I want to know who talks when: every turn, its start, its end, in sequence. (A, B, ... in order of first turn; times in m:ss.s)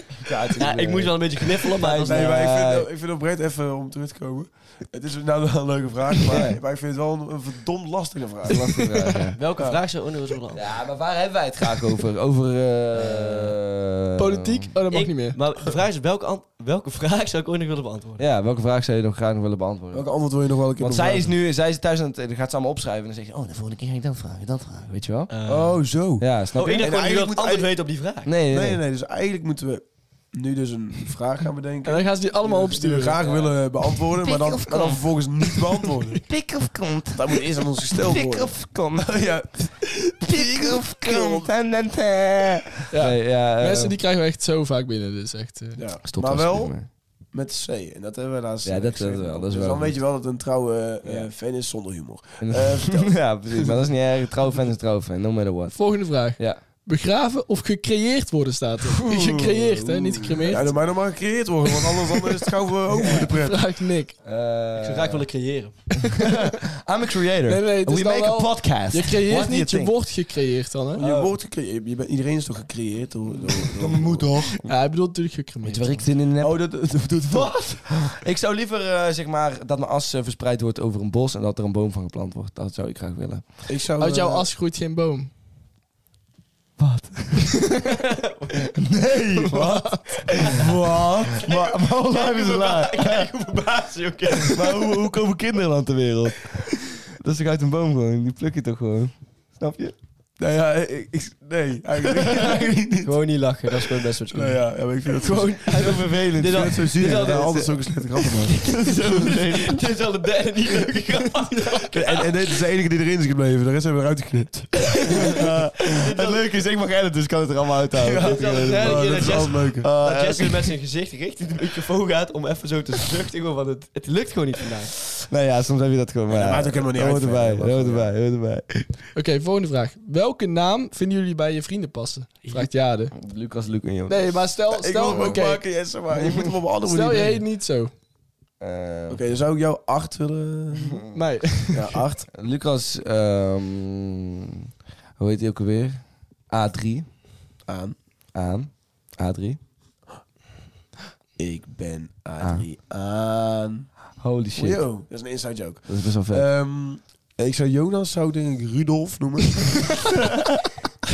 0:00.2-0:02.9 A
0:00.6-0:02.4 B
0:02.1-0:08.9 C
0:06.3-0:06.6 A
0:08.4-0:09.4 A
0:08.7-0:09.3 D
0:09.4-0:10.7 B
0:09.4-0:09.8 C
0:10.5-0:14.7 A
0:13.1-0:13.5 B
0:14.2-0:15.4 D
0:14.9-0:18.2 B
0:18.2-0:20.1 A
0:19.9-0:21.3 C
0:20.8-0:25.3 A
0:25.3-0:25.8 B
0:25.5-0:27.7 C
0:26.2-0:26.9 A
0:26.5-0:28.3 B
0:28.2-0:28.8 A
0:28.5-0:36.2 C
0:31.8-0:33.2 D
0:33.2-0:33.5 B
0:34.1-0:39.3 A
0:37.1-0:41.5 C
0:40.2-0:44.0 A
0:42.9-0:45.9 D
0:45.8-0:46.8 C
0:46.0-0:46.9 A
0:47.3-0:53.8 C
0:48.6-0:50.0 A
0:51.0-0:51.3 A
0:52.4-0:56.6 A
0:55.7-1:00.8 D
0:58.9-1:03.7 C
1:03.0-1:04.2 D
1:04.2-1:05.3 A
1:04.8-1:05.8 B
1:06.0-1:10.0 A
1:07.5-1:11.0 D
1:10.9-1:11.3 A
1:10.9-1:14.6 C
1:13.7-1:14.6 A
1:14.6-1:16.1 D
1:15.6-1:23.6 A
1:16.4-1:17.7 C
1:23.7-1:24.5 C
1:24.0-1:25.3 D
1:26.8-1:28.0 A
1:28.1-1:28.7 B
1:28.8-1:33.3 A
1:29.4-1:30.3 D
1:30.5-1:31.4 C
1:31.4-1:34.8 B
1:34.4-1:40.0 A
1:40.4-1:43.1 C
1:42.2-1:42.7 A
1:43.0-1:52.5 B
1:43.7-1:48.6 C
1:45.7-1:47.3 A
1:48.5-1:49.8 A
1:51.9-1:55.5 C
1:55.1-2:00.6 A
1:55.8-1:56.5 B
1:58.0-1:59.9 C
1:58.1-2:04.9 B
2:05.2-2:09.0 A
2:06.3-2:08.1 C
2:09.1-2:13.2 D
2:13.2-2:15.4 A
2:14.1-2:15.7 D
2:14.7-2:17.4 C
2:16.8-2:17.9 D
2:18.6-2:19.2 A
2:19.1-2:21.1 C
2:21.1-2:22.0 D
2:21.7-2:22.3 C
2:22.3-2:24.6 A
2:25.2-2:27.0 A
2:27.6-2:27.9 C
2:28.3-2:29.6 A
2:31.4-2:33.9 C
2:32.4-2:32.6 A
2:34.2-2:34.8 A
2:34.6-2:39.9 C
2:35.9-2:36.5 A